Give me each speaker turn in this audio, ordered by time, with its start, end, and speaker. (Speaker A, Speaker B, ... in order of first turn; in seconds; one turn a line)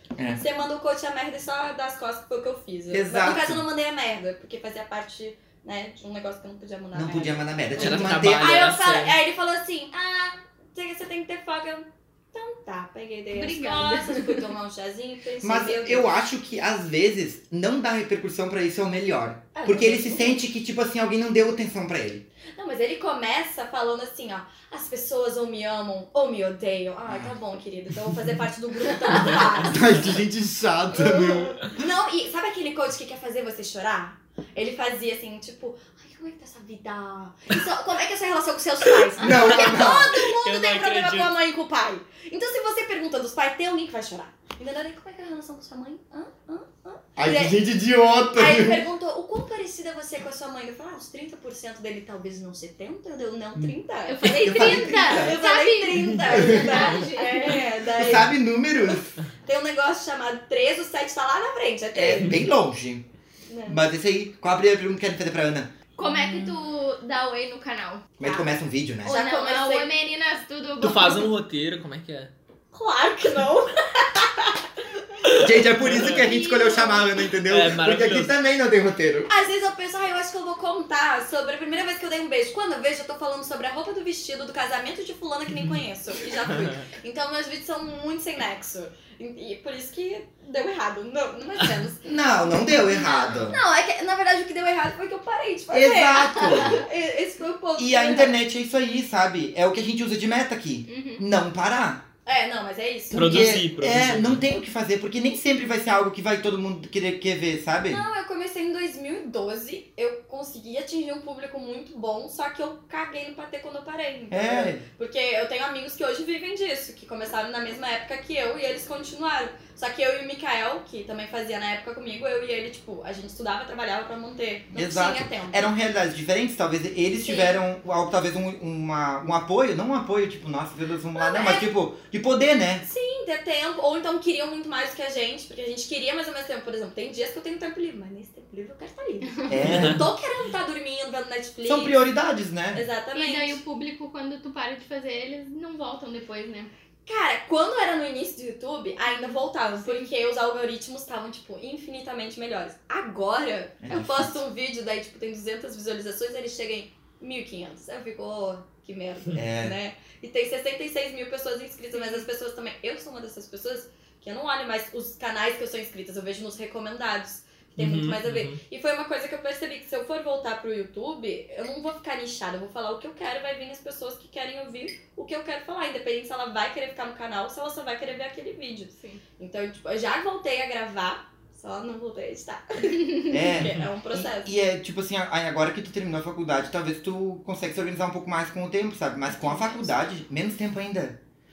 Speaker A: 0.2-0.4
Speaker B: 0.3-16.1
Speaker A: 2.9-3.6
Speaker A: 6.9-8.6
Speaker C: 7.8-9.2
Speaker D: 13.3-14.4
Speaker A: 15.4-22.2
Speaker B: 19.6-20.4
Speaker B: 22.6-30.1
Speaker A: 29.7-31.6
Speaker B: 30.9-47.6
Speaker D: 39.2-39.7
Speaker A: 39.2-40.1
Speaker C: 39.6-41.3
Speaker A: 47.2-48.8
Speaker B: 48.4-62.4
Speaker D: 54.1-57.6
Speaker A: 54.2-55.4
Speaker A: 56.4-56.7
Speaker A: 58.0-59.1
Speaker A: 62.0-63.0
Speaker B: 63.5-63.8
Speaker A: 63.7-65.7
Speaker D: 66.0-68.1
Speaker B: 66.0-66.6
Speaker A: 68.2-69.2
Speaker B: 68.2-68.5
Speaker B: 69.0-69.9
Speaker D: 69.0-71.3
Speaker C: 70.8-72.3
Speaker B: 72.7-74.6
Speaker C: 75.3-76.2
Speaker A: 75.4-79.3
Speaker D: 76.1-77.1
Speaker C: 77.5-78.3
Speaker B: 79.3-92.0
Speaker C: 86.5-86.8
Speaker A: 92.0-93.6
Speaker B: 92.9-98.4
Speaker A: 95.7-96.9
Speaker D: 96.3-96.8
Speaker A: 97.8-102.0
Speaker D: 100.9-101.2
Speaker B: 102.3-103.5
Speaker C: 103.1-104.5
Speaker A: 103.1-108.0
Speaker B: 107.9-125.7
Speaker A: 114.3-114.8
Speaker A: 124.7-132.8
Speaker B: 127.2-127.5
Speaker B: 131.2-131.7
Speaker B: 132.8-142.0
Speaker A: 139.5-140.0
Speaker C: 139.6-140.0
Speaker A: 141.7-142.8
Speaker B: 142.7-143.6
Speaker D: 143.1-146.7
Speaker B: 147.1-184.5
Speaker D: 149.1-150.1
Speaker A: 153.8-154.4
Speaker A: 159.3-159.8
Speaker D: 161.9-162.3
Speaker C: 167.8-168.6
Speaker A: 183.3-191.2
Speaker D: 189.4-189.8